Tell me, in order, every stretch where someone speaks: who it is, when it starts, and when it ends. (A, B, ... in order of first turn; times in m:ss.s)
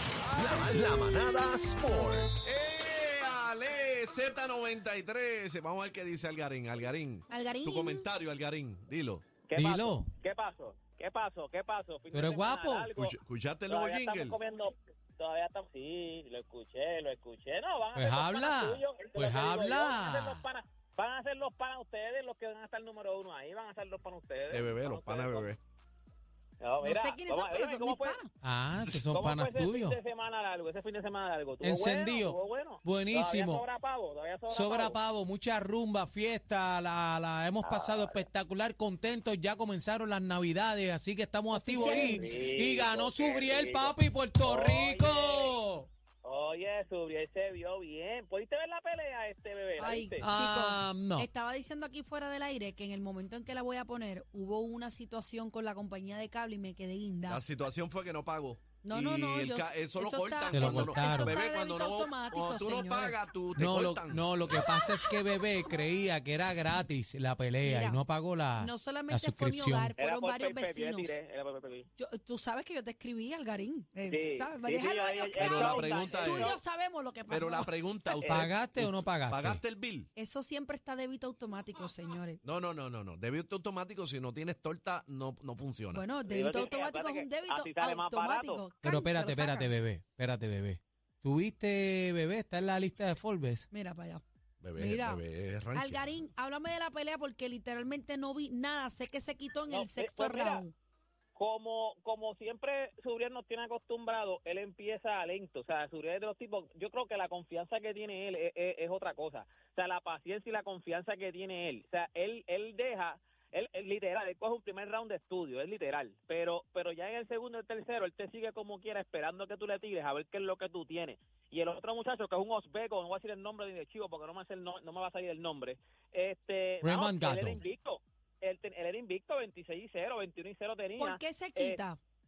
0:00.2-0:00.6 A
0:00.3-0:02.4 B
0:02.4-0:09.2 A
0:07.3-0:08.1 C
0:09.5-0:13.1 D
0:09.6-0:10.1 E
0:12.1-0:13.1 E
0:13.0-0:14.4 A
0:13.7-0:25.5 D
0:17.9-0:20.4 E
0:24.5-0:25.6 A
0:26.6-0:28.2 D
0:26.8-0:28.3 C
0:28.4-0:30.0 E
0:29.1-0:35.0 D
0:31.6-0:33.6 E
0:34.5-0:45.9 E
0:41.5-0:42.3 C
0:41.8-0:45.6 D
0:46.2-0:50.2 D
0:49.8-0:57.4 C
0:50.2-0:51.3 E
0:57.3-1:04.3 A
0:58.8-1:03.2 C
1:00.5-1:01.4 E
1:03.6-1:09.9 E
1:04.5-1:04.9 C
1:07.6-1:08.0 C
1:08.6-1:11.2 C
1:10.0-1:11.9 D
1:12.0-1:17.7 C
1:14.1-1:16.6 D
1:15.3-1:16.6 A
1:17.3-1:20.1 A
1:18.2-1:18.5 D
1:18.3-1:19.6 E
1:20.1-1:22.4 C
1:22.4-1:26.0 A
1:25.9-1:29.7 C
1:26.2-1:28.6 D
1:28.8-1:33.7 E
1:33.7-1:34.2 C
1:34.6-1:36.2 A
1:34.8-1:35.2 C
1:35.7-1:40.7 C
1:39.7-1:40.6 D
1:41.4-2:11.8 D
2:06.8-2:07.6 E
2:11.0-2:12.0 C